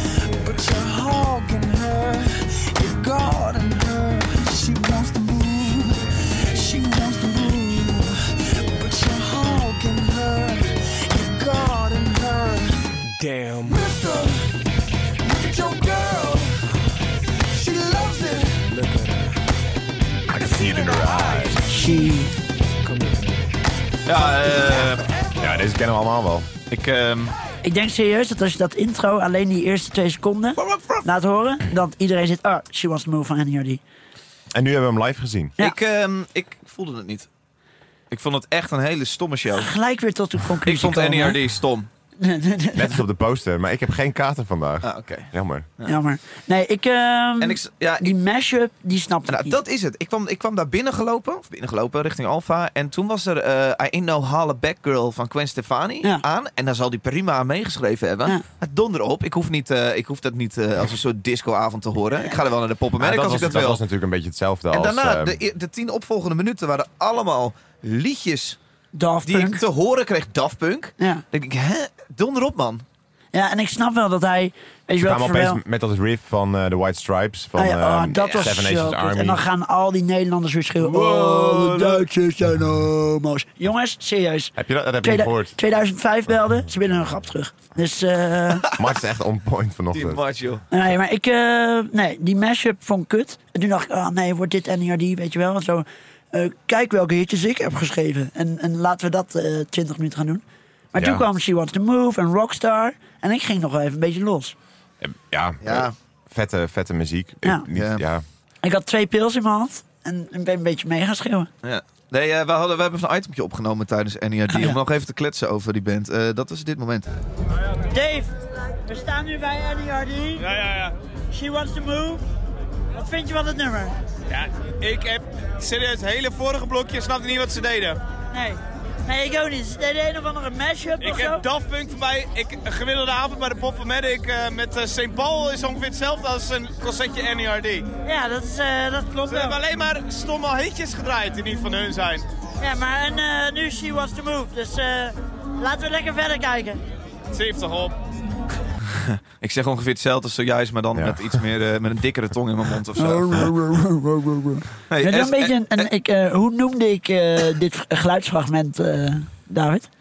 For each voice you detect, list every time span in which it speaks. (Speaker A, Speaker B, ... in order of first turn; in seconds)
Speaker A: 0.2-14.5, 15.2-16.6, 17.5-19.4, 20.4-22.0, 22.8-23.5, 24.1-25.5
Speaker B: 20.3-21.6, 25.4-26.5, 34.5-35.5, 42.8-45.7, 63.0-65.4, 75.0-79.4, 84.6-85.5, 88.7-90.2, 101.0-101.2, 105.0-108.2, 150.9-151.3
Speaker C: 21.7-22.4, 27.6-33.8, 39.5-41.4, 42.2-43.0, 45.9-49.6, 69.0-69.6, 71.0-71.2, 73.3-75.6, 77.6-88.7, 90.7-104.6, 108.6-111.5, 114.5-114.8, 117.9-118.3, 118.8-120.5, 121.3-122.2, 122.9-124.0, 128.3-131.4, 138.0-139.6, 142.6-146.8, 153.0-159.9
Speaker D: 24.1-25.1, 26.7-27.3, 30.6-31.1, 35.6-37.3, 38.1-39.7, 40.6-41.9, 44.8-46.0, 47.4-48.1, 49.3-63.8, 64.7-68.6, 69.2-72.8, 78.2-78.5, 80.8-82.0, 89.9-90.6, 105.6-105.9, 107.7-108.0, 111.6-117.1, 148.9-153.5, 154.9-155.9
Speaker E: 120.4-120.9, 124.3-128.0, 131.0-137.8, 139.5-142.2, 147.3-147.9